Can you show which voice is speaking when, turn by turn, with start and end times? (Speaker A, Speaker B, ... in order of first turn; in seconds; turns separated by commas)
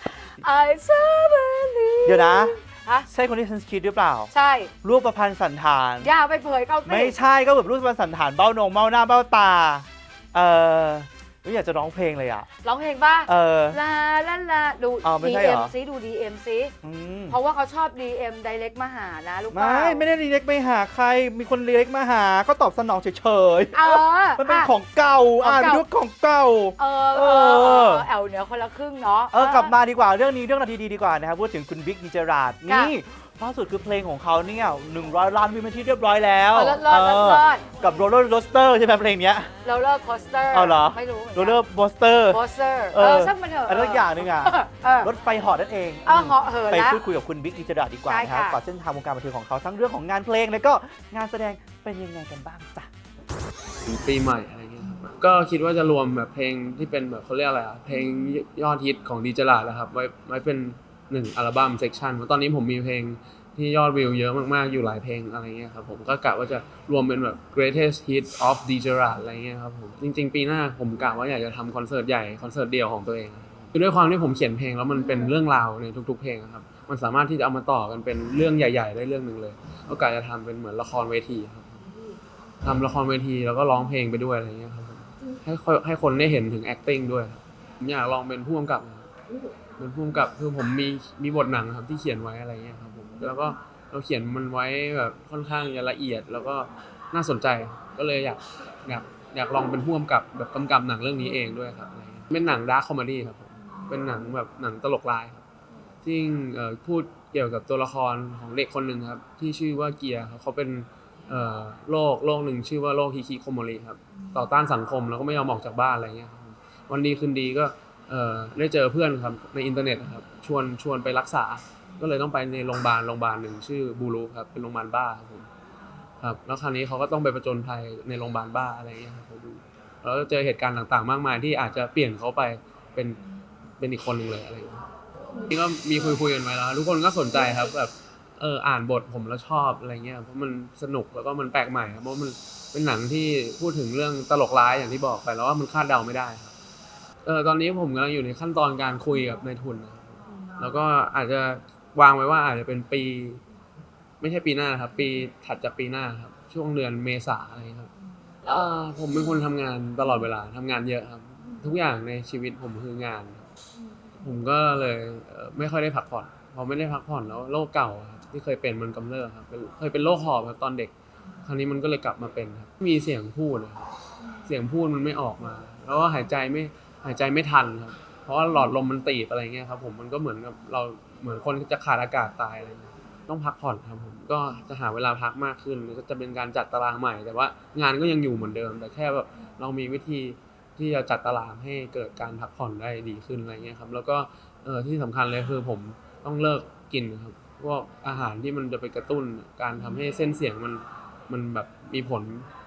Speaker A: 0.2-3.1, Speaker B: 2.0-2.5, Speaker B: 3.1-4.3, Speaker A: 4.3-4.7, Speaker B: 4.8-6.1, Speaker A: 6.0-7.2, Speaker B: 6.8-12.5, Speaker A: 12.6-16.7, Speaker B: 13.3-13.8, Speaker B: 15.0-15.7, Speaker B: 16.8-17.4, Speaker A: 17.3-20.0, Speaker B: 19.5-28.1, Speaker A: 23.7-24.7, Speaker A: 25.4-25.8, Speaker A: 26.8-29.7, Speaker B: 29.3-39.5, Speaker A: 32.7-32.9, Speaker A: 36.5-37.6, Speaker A: 39.6-41.6, Speaker B: 40.5-42.4, Speaker A: 42.3-45.1, Speaker B: 42.9-52.9, Speaker A: 46.0-47.0, Speaker A: 48.1-48.6, Speaker C: 53.9-81.8, Speaker C: 82.6-89.1, Speaker C: 89.8-105.4, Speaker C: 106.0-125.5, Speaker C: 126.2-133.2, Speaker C: 133.8-134.9, Speaker C: 135.5-146.6, Speaker C: 147.2-153.4, Speaker C: 154.2-157.9, Speaker C: 158.5-163.5, Speaker C: 164.2-173.9, Speaker C: 174.5-202.5